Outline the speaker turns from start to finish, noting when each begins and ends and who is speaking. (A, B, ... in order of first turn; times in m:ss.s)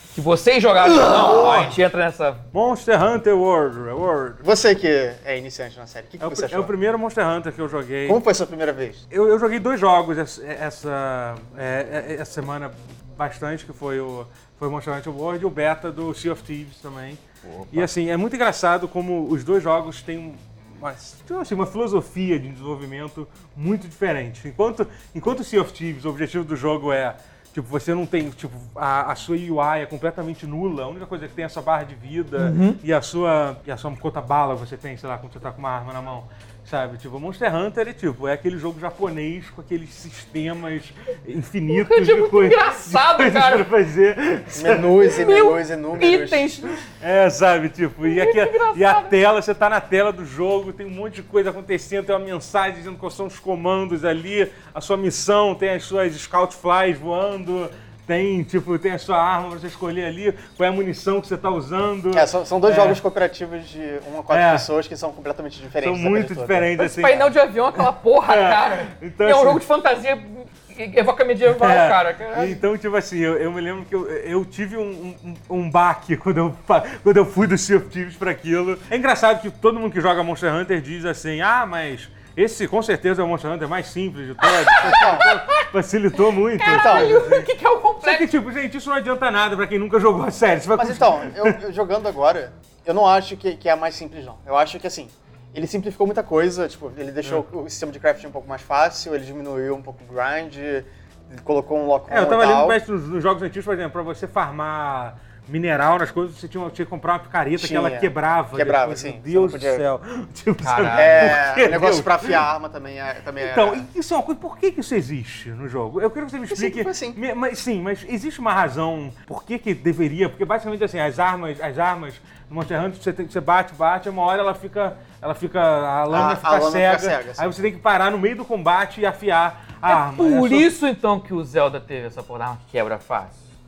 0:00.1-0:02.4 A
0:00.9-0:01.7 B
0:02.5-0:04.4 B
0:04.4-0:06.7 C
0:06.2-0:08.2 B
0:08.0-0:09.0 C
0:09.1-0:17.2 B
0:17.4-0:17.9 A
0:17.7-0:45.2 B
0:32.4-0:32.8 A
0:41.7-0:43.7 A
0:44.5-0:46.5 C
0:45.0-0:46.8 A
0:46.8-1:03.0 B
0:48.0-0:49.1 A
1:02.1-1:06.7 C
1:04.3-1:04.7 B
1:05.8-1:07.3 B
1:06.8-1:12.6 A
1:08.2-1:09.6 B
1:11.5-1:27.5 B
1:24.4-1:25.7 A
1:24.8-1:25.3 C
1:26.6-1:28.3 A
1:26.6-1:27.2 C
1:28.0-1:31.6 B
1:30.7-1:42.8 C
1:42.1-1:52.4 B
1:47.6-1:49.8 C
1:50.6-1:51.4 A
1:50.9-1:53.8 C
1:53.4-2:10.7 B
1:56.5-1:57.2 C
2:06.1-2:07.5 C
2:09.8-2:13.4 A